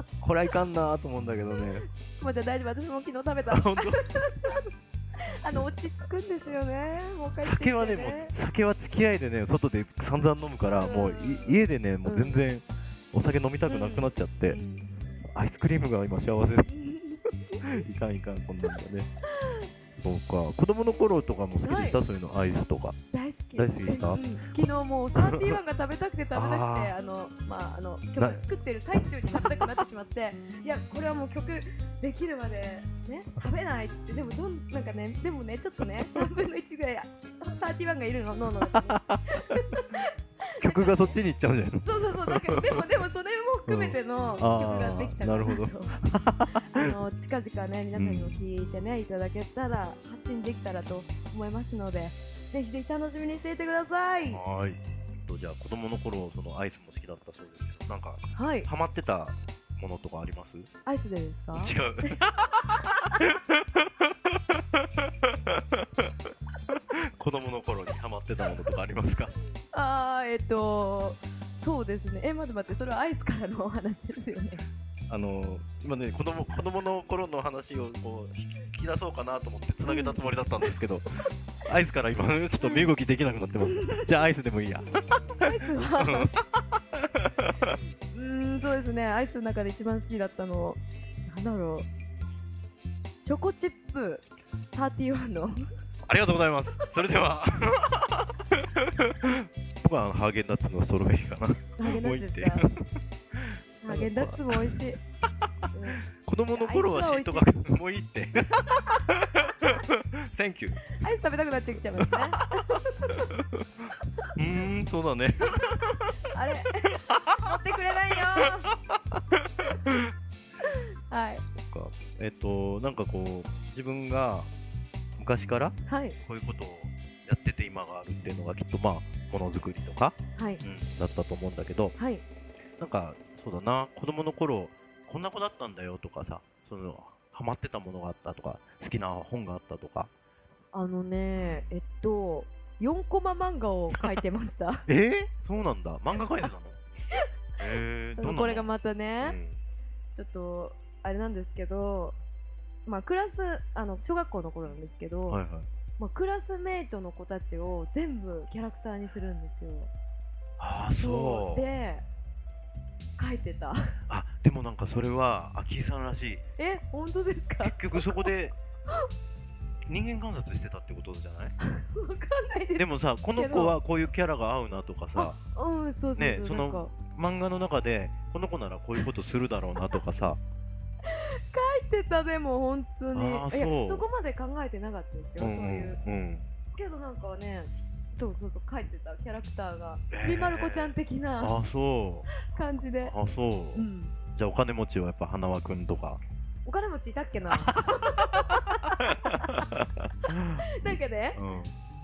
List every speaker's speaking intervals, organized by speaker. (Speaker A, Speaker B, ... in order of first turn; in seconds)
Speaker A: 0.2-1.9, 3.5-4.0, 7.4-14.6, 15.2-16.7, 17.6-19.1, 20.0-23.0, 23.6-24.2, 25.1-25.6, 26.3-26.9, 28.1-28.4, 38.7-39.2, 40.6-42.8, 43.7-46.9, 48.0-48.4, 54.3-60.7, 61.5-66.1, 66.7-69.3, 75.1-81.1, 81.6-87.7, 96.0-102.8, 103.3-104.8, 106.1-110.9, 112.0-112.5, 113.3-113.6, 114.3-116.1, 118.9-120.1, 121.6-124.5, 125.2-131.9, 132.8-140.1, 144.9-146.8, 147.6-149.6, 155.3-155.7, 160.6-161.7, 164.1-166.4, 167.6-168.6, 169.9-171.5, 172.8-175.4, 176.2-180.4, 183.1-184.1, 185.4-186.4, 190.1-192.3, 193.0-196.2, 197.5-201.7
Speaker B: 2.2-4.6, 5.2-8.3, 10.7-12.4, 13.7-15.2, 16.7-17.6, 21.6-22.0, 23.1-41.2, 41.8-46.0, 46.5-54.4, 58.3-58.7, 60.9-62.2, 69.7-74.6, 79.8-80.7, 82.6-82.9, 85.4-86.3, 88.1-91.9, 93.2-95.6, 101.8-102.7, 103.8-105.0, 105.7-107.5, 110.9-113.2, 116.3-118.7, 120.7-121.4, 125.9-126.2, 130.4-130.6, 132.0-132.2, 140.7-144.9, 148.2-149.4, 150.1-152.2, 152.8-155.4, 156.0-159.9, 161.0-162.0, 163.2-163.9, 166.6-168.3, 171.6-173.8, 175.2-176.9, 181.0-186.0, 186.7-191.5, 192.3-193.1, 193.7-194.1, 196.6-199.1, 200.8-201.4